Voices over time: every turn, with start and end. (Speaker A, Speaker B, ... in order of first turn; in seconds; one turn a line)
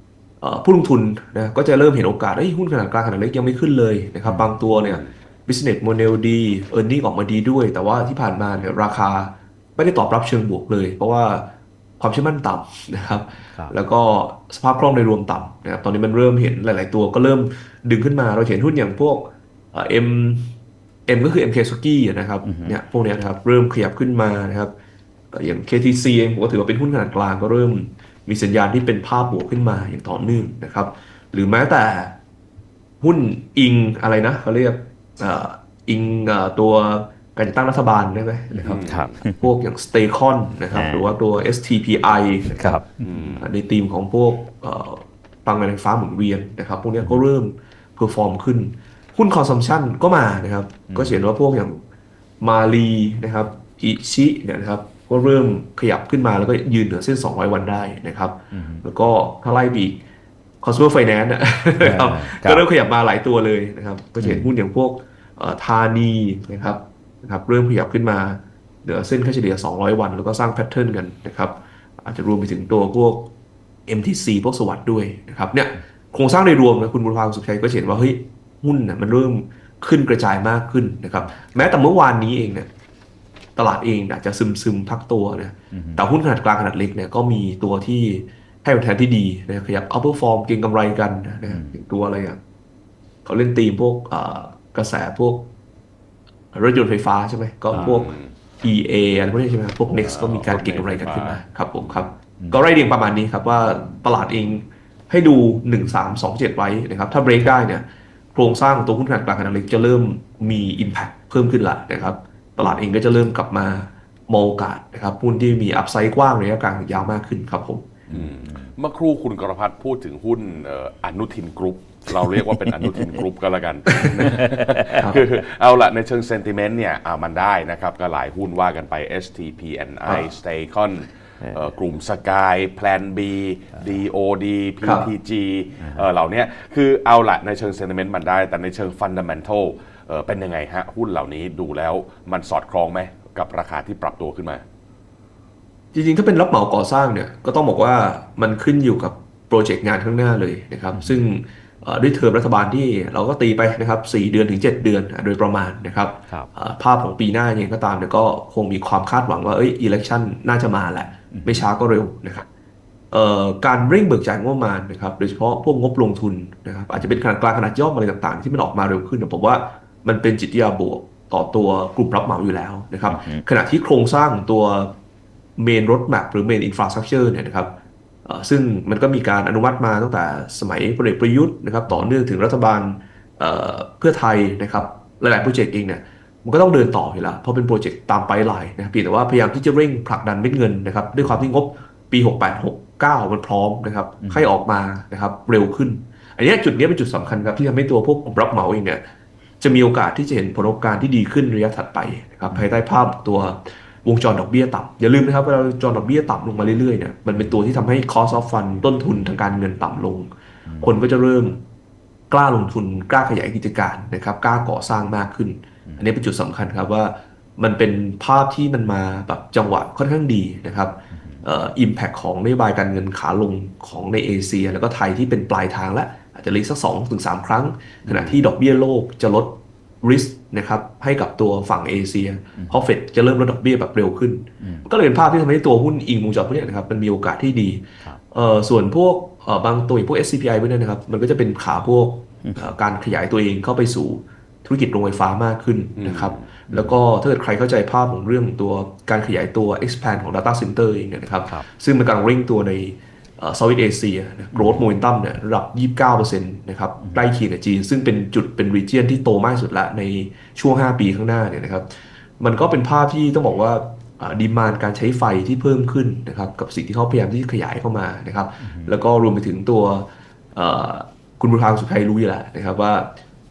Speaker A: 0.4-20.5
Speaker B: 4.2-4.6
Speaker C: 4.8-5.1
Speaker A: 21.1-24.7
Speaker B: 22.4-22.8
Speaker A: 25.3-32.2
Speaker A: 33.0-42.8
Speaker B: 38.6-39.5
Speaker C: 38.6-39.1
Speaker B: 40.7-41.1
Speaker B: 42.6-42.9
Speaker C: 43.0-43.5
Speaker A: 43.4-51.8
Speaker B: 50.9-51.2
Speaker A: 52.4-60.0
Speaker B: 58.5-58.8
Speaker A: 60.6-73.3
Speaker B: 61.8-62.6
Speaker B: 64.2-64.5
Speaker A: 73.9-82.7
Speaker A: 83.6-92.4
Speaker B: 85.7-86.0
Speaker B: 91.5-91.8
Speaker A: 93.2-95.5
Speaker A: 96.5-118.0
Speaker C: 97.7-98.3
Speaker C: 100.0-102.0
Speaker B: 118.1-118.6
Speaker C: 118.1-144.6
Speaker B: 124.3-125.0
Speaker B: 131.4-131.7
Speaker A: 134.8-135.1
Speaker B: 135.8-136.1
Speaker A: 145.9-162.5
Speaker B: 150.9-151.2
Speaker B: 161.3-161.7
Speaker A: 163.1-174.9
Speaker B: 173.1-173.4
Speaker A: 175.6-177.7
Speaker A: 178.2-199.0
Speaker B: 194.2-194.5
Speaker A: 199.6-211.6
Speaker B: 210.7-210.9
Speaker A: 212.3-261.9
Speaker B: 221.1-221.4
Speaker B: 232.6-232.8
Speaker B: 234.6-234.9
Speaker C: 246.0-246.5
Speaker B: 246.7-247.0
Speaker B: 254.5-254.8
Speaker B: 257.0-257.3
Speaker A: 262.4-273.1
Speaker B: 268.6-269.0